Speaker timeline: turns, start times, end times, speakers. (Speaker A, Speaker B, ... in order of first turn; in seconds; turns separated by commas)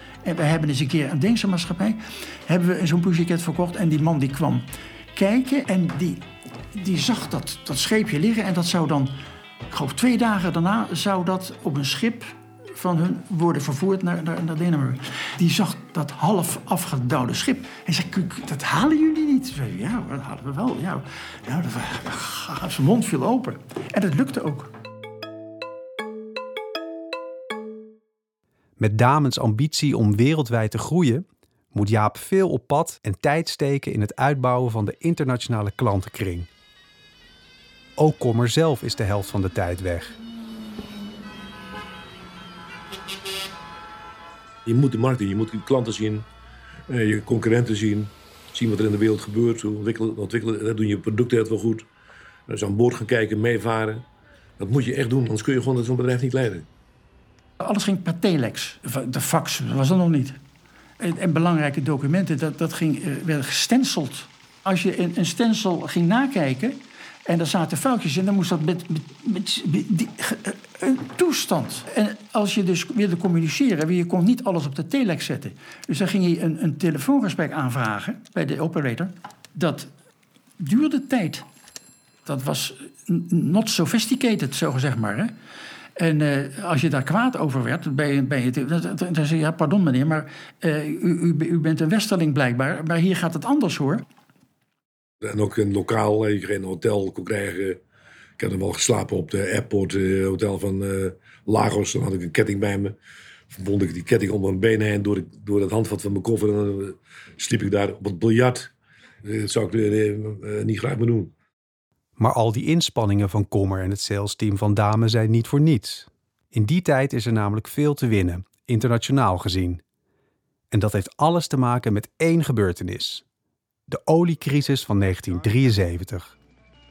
Speaker A: 0.2-9.2, Speaker A: 9.7-24.7, Speaker B: 28.8-36.5, Speaker B: 38.0-40.2, Speaker C: 44.6-46.3, Speaker C: 46.9-51.9, Speaker C: 52.5-54.0, Speaker C: 54.6-56.7, Speaker A: 57.6-60.4, Speaker A: 61.0-79.9, Speaker A: 80.6-81.5, Speaker A: 82.2-85.3, Speaker A: 86.0-94.1, Speaker C: 95.2-97.8, Speaker C: 98.4-103.0, Speaker C: 103.5-108.7, Speaker C: 109.2-111.3, Speaker B: 112.2-119.8, Speaker B: 120.7-123.2, Speaker B: 123.9-126.3